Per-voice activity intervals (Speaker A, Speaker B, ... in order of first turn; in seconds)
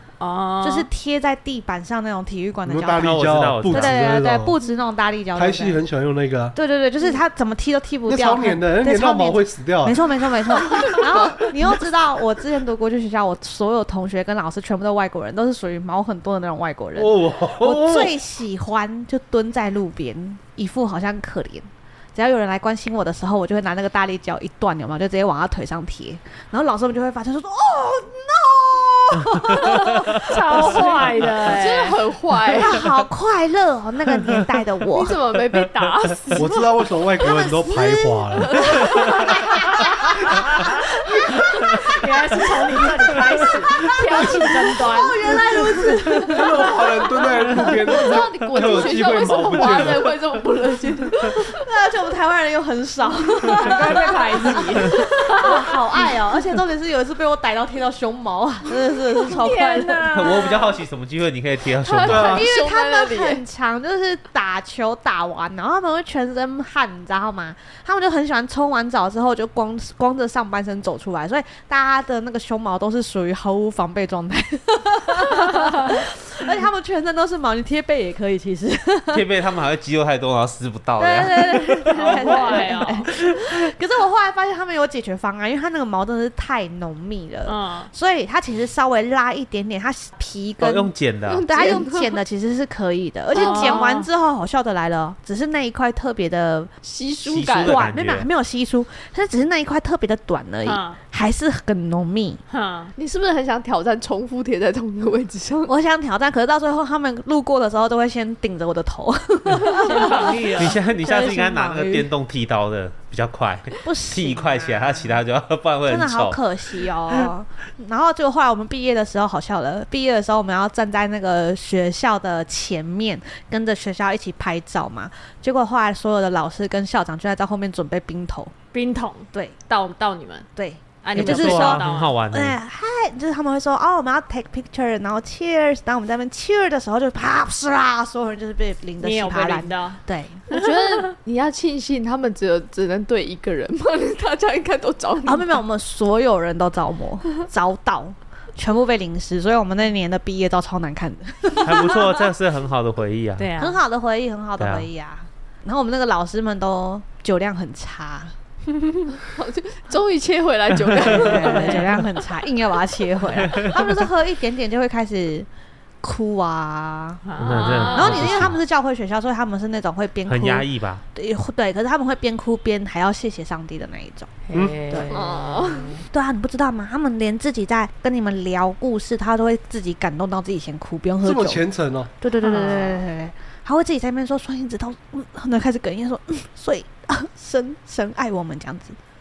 Speaker A: 0.2-0.9, 29.8-32.0, 41.7-45.7, 53.5-55.7, 59.2-60.7, 81.9-83.1, 87.5-87.9, 93.3-94.1, 100.6-101.0, 102.5-102.9, 109.6-110.8, 128.7-130.5, 131.0-132.2, 139.0-141.1, 153.4-153.8, 161.3-161.8, 167.2-168.5, 174.5-176.0, 182.4-183.0
Speaker B: 0.6-5.8, 6.5-31.3, 32.5-35.2, 37.2-42.3, 43.6-47.6, 51.5-60.3, 62.0-79.2, 81.0-90.9, 91.5-96.7, 97.4-102.4, 105.7-112.1, 113.8-115.2, 115.8-128.5, 130.6-140.4, 145.2-152.3, 153.6-158.3, 161.0-165.5, 166.0-167.2, 167.8-175.1, 176.1-181.7, 182.2-189.0
Speaker C: 2.7-4.5, 5.3-6.5, 8.1-10.1, 16.9-18.1, 36.4-38.8, 46.2-50.3, 62.0-62.4, 174.5-174.8, 181.2-182.1
Speaker D: 3.0-4.0, 35.8-36.1, 60.1-62.5, 79.1-83.5, 90.6-91.4, 97.2-98.3, 110.5-116.8, 131.2-132.6, 151.6-153.5, 154.6-154.9, 163.4-163.8, 167.4-168.6, 170.3-171.0
Speaker E: 30.5-32.9, 34.9-37.6, 38.4-40.1, 46.9-51.6, 61.8-63.4, 91.3-92.2, 93.3-94.0, 96.8-97.8, 103.0-105.7, 140.5-145.5, 159.1-161.9, 175.1-176.0